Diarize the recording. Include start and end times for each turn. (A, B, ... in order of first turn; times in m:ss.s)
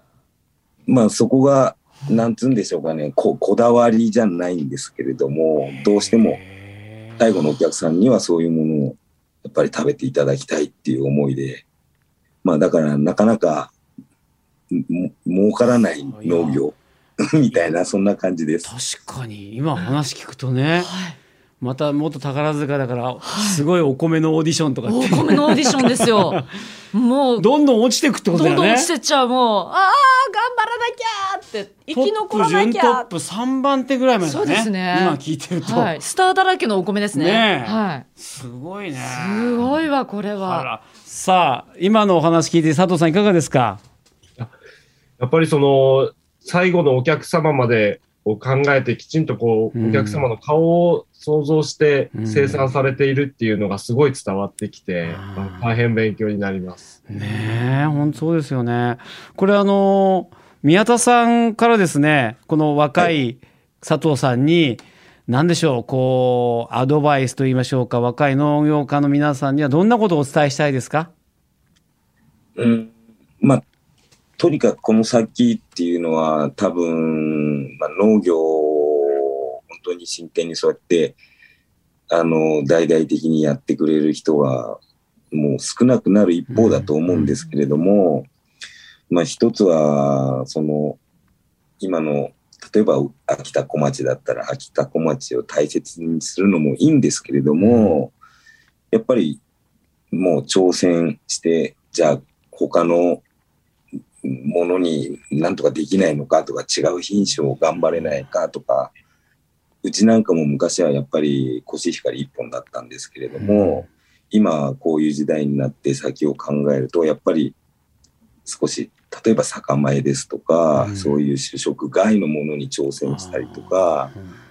0:00.9-0:06.4 A
0:05.8-0:07.2 B
0:07.2-0:11.6 A
0:12.4-0:13.7 A
0:14.7-0:18.7 A
0:16.0-0:16.6 B
0:18.6-0:20.9 B
0:20.8-0:21.2 C
0:21.6-0:26.5 B
0:23.2-0:23.6 C
0:24.9-0:26.4 C
0:26.9-0:27.5 C
0:27.4-0:28.9 B
0:28.3-0:33.1 C
0:31.9-0:35.9 B
0:34.2-0:38.1 C
0:37.1-0:39.8 B
0:39.0-0:40.7 C
0:40.4-0:43.8 B
0:45.2-0:57.0 D
0:49.8-0:50.3 B
0:52.1-0:52.8 B
0:55.0-0:55.7 B
0:57.1-1:11.1 B
1:12.6-1:13.6 A
1:14.4-1:21.2 A
1:22.1-1:24.8 A
1:25.3-1:28.3 A
1:26.5-1:27.4 B
1:29.1-1:31.0 A
1:31.8-1:38.2 A
1:37.6-1:38.0 B
1:38.9-1:39.4 A
1:40.1-1:43.2 A
1:44.2-1:48.9 A
1:49.8-1:57.6 A
1:53.4-1:53.9 B
1:58.5-2:04.1 A
2:00.8-2:01.2 B
2:03.1-2:04.4 B